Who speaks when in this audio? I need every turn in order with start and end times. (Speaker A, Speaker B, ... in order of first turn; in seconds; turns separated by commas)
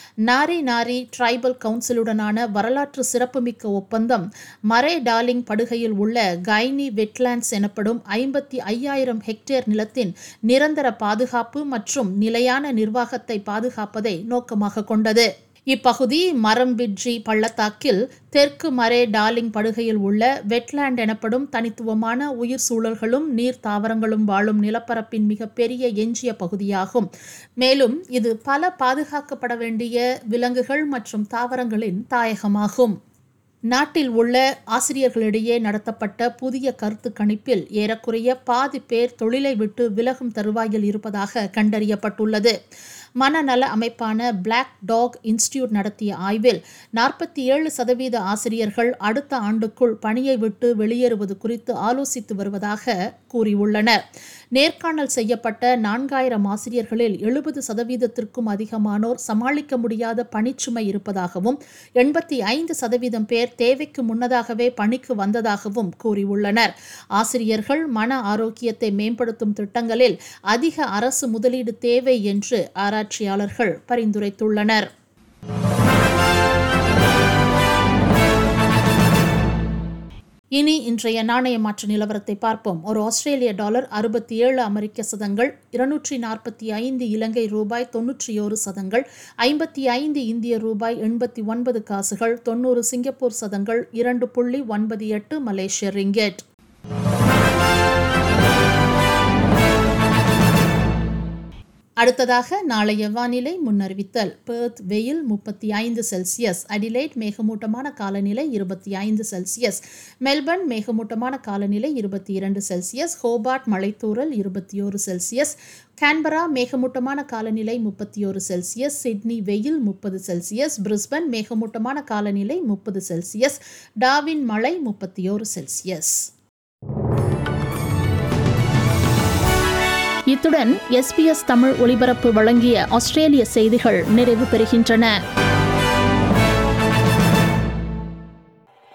Speaker A: 0.2-27.1, Speaker A: 27.6-33.0, Speaker A: 33.7-42.5, Speaker A: 43.2-54.0, Speaker A: 54.5-74.8, Speaker A: 80.5-96.4, Speaker A: 102.0-126.3, Speaker A: 130.3-135.1